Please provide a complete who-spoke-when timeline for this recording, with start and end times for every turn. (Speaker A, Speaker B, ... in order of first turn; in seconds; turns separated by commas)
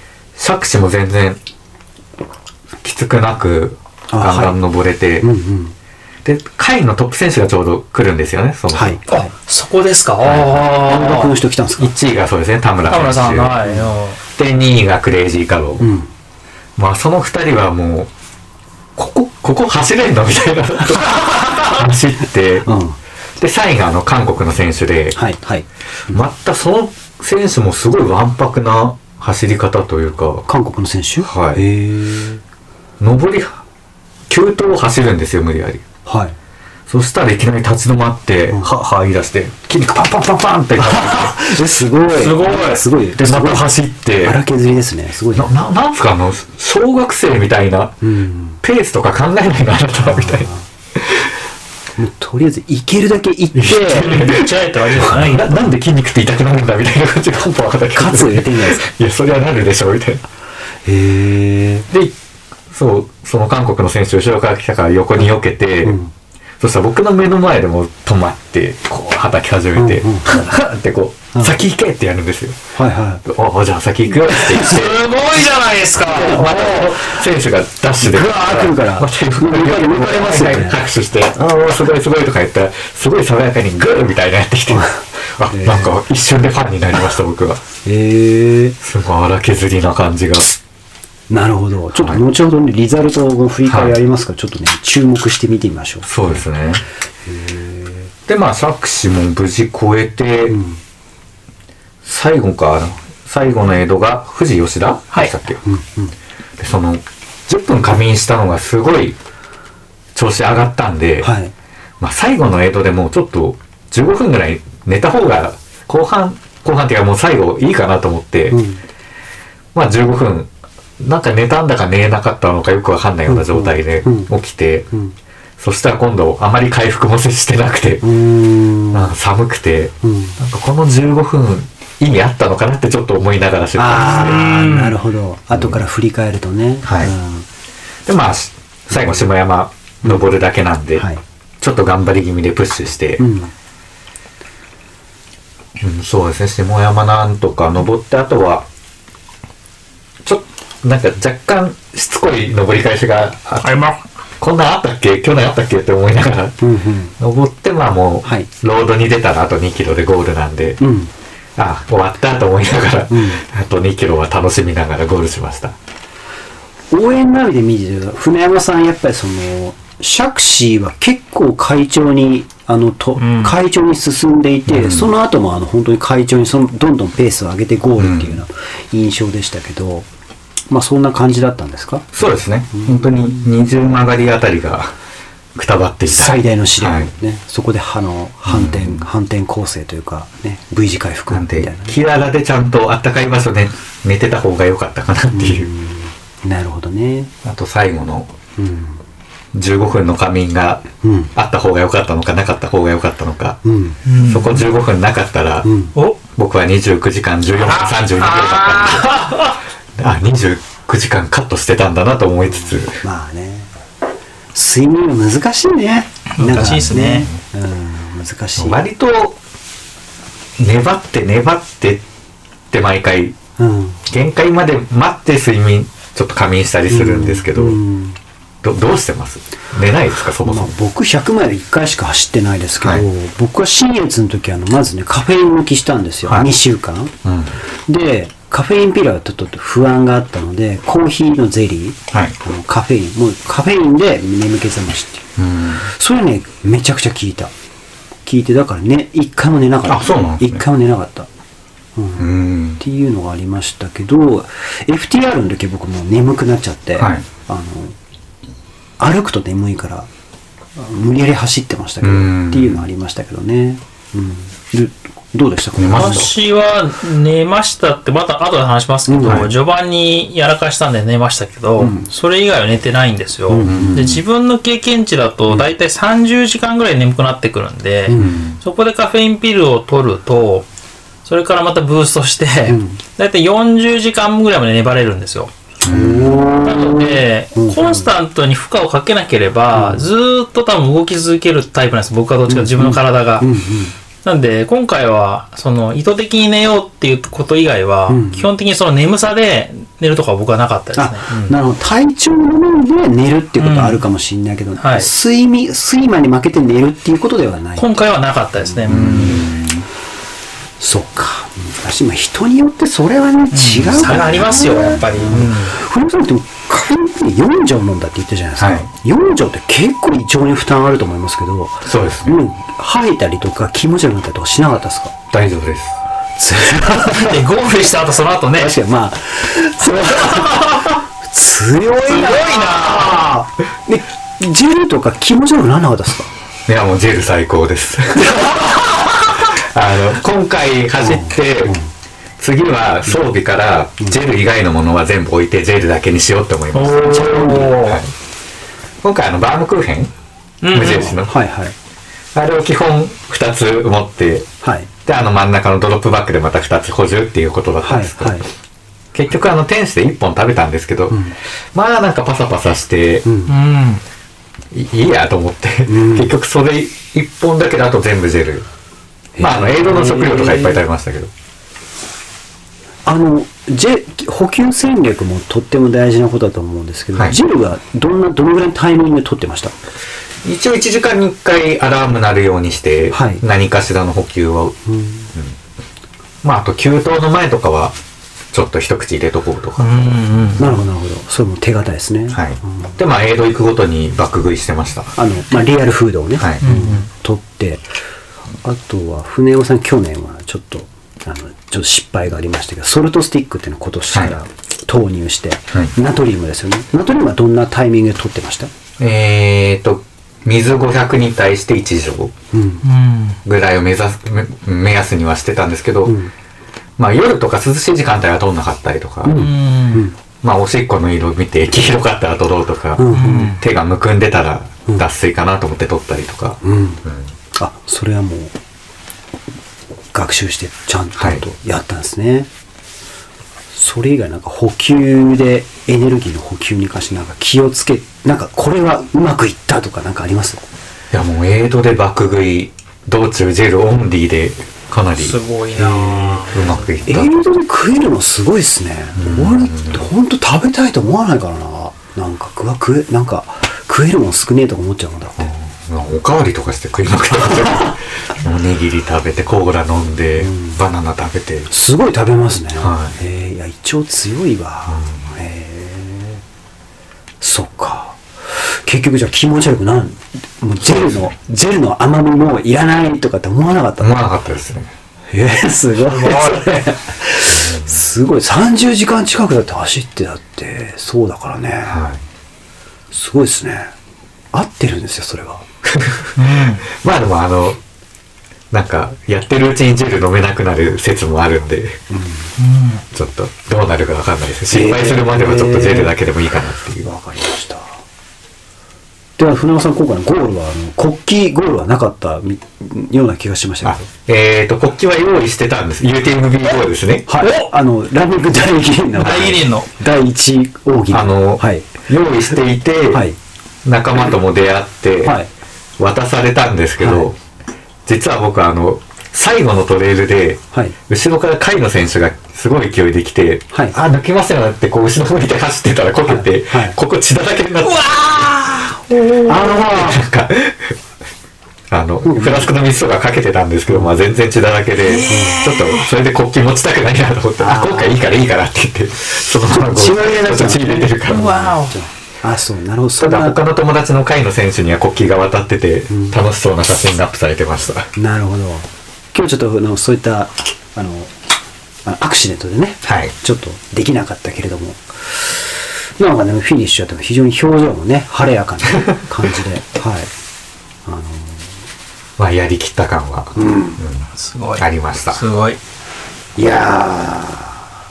Speaker A: 0.3-1.4, Speaker A: 2.8-5.3, Speaker B: 4.1-4.6, Speaker B: 5.2-5.7, Speaker A: 6.2-9.0, Speaker B: 8.7-9.3, Speaker C: 9.1-11.3, Speaker A: 10.2-10.5, Speaker B: 10.3-11.9, Speaker A: 11.8-13.6, Speaker C: 12.8-14.2, Speaker B: 13.6-13.9, Speaker A: 14.3-15.9, Speaker B: 15.8-16.1, Speaker A: 16.8-18.1, Speaker A: 19.0-22.7, Speaker B: 22.6-23.0, Speaker A: 23.4-25.2, Speaker B: 25.1-26.2, Speaker A: 26.1-30.4, Speaker B: 30.5-32.4, Speaker A: 31.2-31.6, Speaker A: 33.0-33.6, Speaker A: 34.3-35.8, Speaker B: 36.0-36.4, Speaker A: 36.9-41.4, Speaker B: 40.8-43.7, Speaker C: 42.1-42.9, Speaker A: 43.1-44.4, Speaker B: 44.2-45.5, Speaker A: 45.3-48.0, Speaker B: 48.0-48.6, Speaker A: 48.6-51.3, Speaker B: 50.0-50.7, Speaker B: 52.0-54.4, Speaker A: 53.5-60.2, Speaker C: 53.9-55.7, Speaker B: 57.9-58.8, Speaker B: 60.8-61.9, Speaker A: 61.9-62.1, Speaker A: 62.7-66.0, Speaker B: 65.8-66.1, Speaker A: 66.6-72.6, Speaker B: 69.8-70.6, Speaker B: 72.7-73.2, Speaker A: 73.2-75.0, Speaker B: 74.3-74.8, Speaker C: 74.5-76.5, Speaker B: 76.1-77.2, Speaker A: 76.1-87.6, Speaker B: 78.0-80.8, Speaker B: 84.7-85.9, Speaker B: 87.8-88.8, Speaker A: 88.8-90.5, Speaker B: 91.3-96.1, Speaker A: 91.9-92.2, Speaker A: 93.7-94.0, Speaker A: 96.0-96.8, Speaker B: 97.2-98.1, Speaker A: 98.3-100.6, Speaker B: 100.5-100.8, Speaker A: 102.0-105.6, Speaker B: 105.6-106.1, Speaker A: 106.6-109.2, Speaker A: 110.1-111.3, Speaker B: 111.2-111.5, Speaker A: 112.0-118.6, Speaker B: 118.5-118.8, Speaker A: 119.7-124.9, Speaker B: 123.3-124.3, Speaker B: 124.9-125.2, Speaker A: 125.6-128.0, Speaker B: 128.0-129.1, Speaker A: 128.9-134.4, Speaker B: 130.0-130.4, Speaker B: 133.8-137.4, Speaker C: 133.9-135.0, Speaker A: 135.5-135.8, Speaker A: 136.8-137.1, Speaker A: 138.1-141.1, Speaker B: 138.9-139.3, Speaker B: 140.9-141.2, Speaker A: 141.6-143.2, Speaker B: 143.2-143.5, Speaker A: 145.8-148.7, Speaker A: 150.2-153.8, Speaker C: 153.6-154.0, Speaker A: 154.4-156.6, Speaker B: 156.6-157.1, Speaker A: 157.2-160.8, Speaker B: 160.8-161.1, Speaker A: 161.6-165.8, Speaker B: 163.1-163.4, Speaker B: 166.9-180.1, Speaker C: 173.2-173.6, Speaker A: 174.7-175.1, Speaker A: 178.0-178.4, Speaker B: 180.7-182.0, Speaker A: 182.1-184.9, Speaker B: 182.7-183.5, Speaker A: 185.5-187.1, Speaker B: 186.1-191.9, Speaker A: 188.4-189.0, Speaker A: 191.3-195.7, Speaker B: 195.3-197.3, Speaker A: 197.4-198.3, Speaker B: 198.6-199.0, Speaker A: 199.5-203.6, Speaker B: 201.0-201.3, Speaker B: 203.6-204.0, Speaker C: 204.1-204.6, Speaker A: 204.2-205.7, Speaker B: 205.6-205.9, Speaker A: 206.3-209.4, Speaker C: 207.6-209.6, Speaker A: 209.9-213.0, Speaker B: 212.5-213.7, Speaker B: 214.5-218.8, Speaker C: 216.3-217.3, Speaker A: 216.5-217.4, Speaker A: 218.6-219.4, Speaker A: 220.6-222.0, Speaker A: 222.7-223.3, Speaker B: 223.6-224.0, Speaker A: 224.1-227.8, Speaker B: 226.9-228.2, Speaker A: 228.6-230.7, Speaker B: 230.4-237.1, Speaker A: 232.8-233.0, Speaker A: 237.2-237.5, Speaker B: 237.9-245.3, Speaker A: 242.1-242.4, Speaker A: 245.4-245.9, Speaker B: 245.8-247.5, Speaker B: 248.2-251.3, Speaker A: 249.8-250.6, Speaker B: 251.9-257.9, Speaker A: 252.2-252.8, Speaker A: 257.0-257.2, Speaker B: 259.0-260.1, Speaker B: 260.7-266.3, Speaker A: 262.0-262.8, Speaker A: 265.8-266.3, Speaker C: 265.9-280.6, Speaker B: 269.1-269.5, Speaker B: 271.8-272.1, Speaker B: 273.5-274.2, Speaker A: 273.6-274.2, Speaker B: 278.1-278.4, Speaker A: 278.1-278.6, Speaker C: 281.2-285.5, Speaker B: 282.7-283.0, Speaker A: 285.8-286.6, Speaker B: 285.9-288.1, Speaker C: 286.6-293.5, Speaker B: 289.7-290.1, Speaker B: 292.5-293.9, Speaker C: 294.2-301.6, Speaker B: 298.1-298.5, Speaker B: 300.9-307.9, Speaker C: 303.6-304.0, Speaker C: 304.8-305.1, Speaker C: 307.8-309.5, Speaker B: 308.8-309.5, Speaker A: 308.9-309.8, Speaker B: 310.8-325.1, Speaker C: 313.5-315.8, Speaker A: 314.0-315.0, Speaker A: 318.6-318.9, Speaker A: 321.8-322.4, Speaker A: 325.3-326.0, Speaker B: 326.4-327.4, Speaker C: 326.6-328.7, Speaker B: 328.5-336.3, Speaker C: 330.0-331.0, Speaker C: 332.1-333.3, Speaker A: 336.7-341.8, Speaker B: 341.0-341.9, Speaker A: 342.4-348.1, Speaker C: 346.7-348.0, Speaker B: 347.2-347.7, Speaker A: 349.0-350.1, Speaker C: 350.6-351.1, Speaker A: 350.7-351.3, Speaker B: 350.8-351.7, Speaker A: 352.3-354.5, Speaker B: 354.6-354.9, Speaker A: 355.0-358.4, Speaker B: 357.8-358.5, Speaker A: 359.1-361.2, Speaker B: 361.1-361.4, Speaker A: 361.7-363.2, Speaker B: 363.2-363.5, Speaker C: 363.5-364.0, Speaker A: 364.7-368.7, Speaker B: 365.9-366.3, Speaker B: 369.4-370.8, Speaker A: 369.4-371.3, Speaker B: 373.1-379.7, Speaker A: 380.4-384.8, Speaker B: 383.1-383.4, Speaker B: 384.9-385.3, Speaker A: 386.4-387.9, Speaker A: 388.5-390.6, Speaker C: 389.8-390.8, Speaker B: 390.6-392.9, Speaker A: 392.3-395.1, Speaker B: 395.1-397.8, Speaker C: 396.6-397.1, Speaker B: 398.6-408.7, Speaker A: 409.0-412.3, Speaker B: 412.5-412.8, Speaker C: 412.8-413.4, Speaker A: 413.4-416.2, Speaker B: 416.0-416.3, Speaker A: 417.0-419.5, Speaker B: 419.2-420.1, Speaker C: 419.3-420.1, Speaker A: 420.4-427.3, Speaker B: 423.0-423.6, Speaker C: 423.1-423.6, Speaker B: 426.6-427.0, Speaker B: 427.5-428.5, Speaker B: 430.1-432.5, Speaker A: 431.2-431.4, Speaker B: 433.7-440.6, Speaker A: 441.1-445.4, Speaker C: 445.2-446.9, Speaker B: 445.7-446.5, Speaker A: 446.5-447.4, Speaker B: 447.1-455.5, Speaker A: 449.2-450.1, Speaker A: 455.4-461.7, Speaker B: 457.6-457.9, Speaker B: 460.4-460.8, Speaker B: 461.7-466.4, Speaker A: 462.8-463.2, Speaker A: 464.9-465.2, Speaker B: 467.4-474.2, Speaker A: 470.8-471.3, Speaker A: 474.0-474.9, Speaker B: 475.3-482.0, Speaker C: 476.0-476.9, Speaker A: 477.5-478.0, Speaker A: 481.9-482.2, Speaker B: 483.1-483.9, Speaker B: 484.5-485.6, Speaker A: 485.8-487.8, Speaker C: 486.4-486.9, Speaker A: 488.7-492.0, Speaker B: 492.1-492.5, Speaker C: 492.6-493.0, Speaker A: 493.1-497.1, Speaker B: 494.7-496.1, Speaker B: 497.0-497.9, Speaker B: 499.4-504.1, Speaker A: 503.8-507.3, Speaker B: 507.3-511.9, Speaker C: 507.4-507.7, Speaker C: 509.2-509.9, Speaker A: 511.1-513.2, Speaker B: 513.1-513.4, Speaker A: 513.8-515.4, Speaker B: 515.2-515.5, Speaker A: 516.0-517.4, Speaker B: 517.0-517.3, Speaker A: 518.0-528.1, Speaker B: 523.7-524.0, Speaker B: 526.3-527.0, Speaker C: 527.8-529.5, Speaker A: 529.2-531.0, Speaker B: 529.5-530.2, Speaker A: 531.9-541.6, Speaker B: 532.2-532.7, Speaker B: 533.9-534.1, Speaker C: 535.0-536.1, Speaker B: 535.3-535.6, Speaker B: 537.6-538.2, Speaker B: 539.7-543.6, Speaker C: 541.3-542.0, Speaker A: 543.2-548.1, Speaker B: 546.1-546.4, Speaker B: 548.1-551.3, Speaker B: 552.0-560.3, Speaker A: 553.0-553.3, Speaker B: 561.0-561.7, Speaker A: 562.4-565.4, Speaker B: 563.5-564.0, Speaker C: 564.4-565.8, Speaker B: 566.6-567.8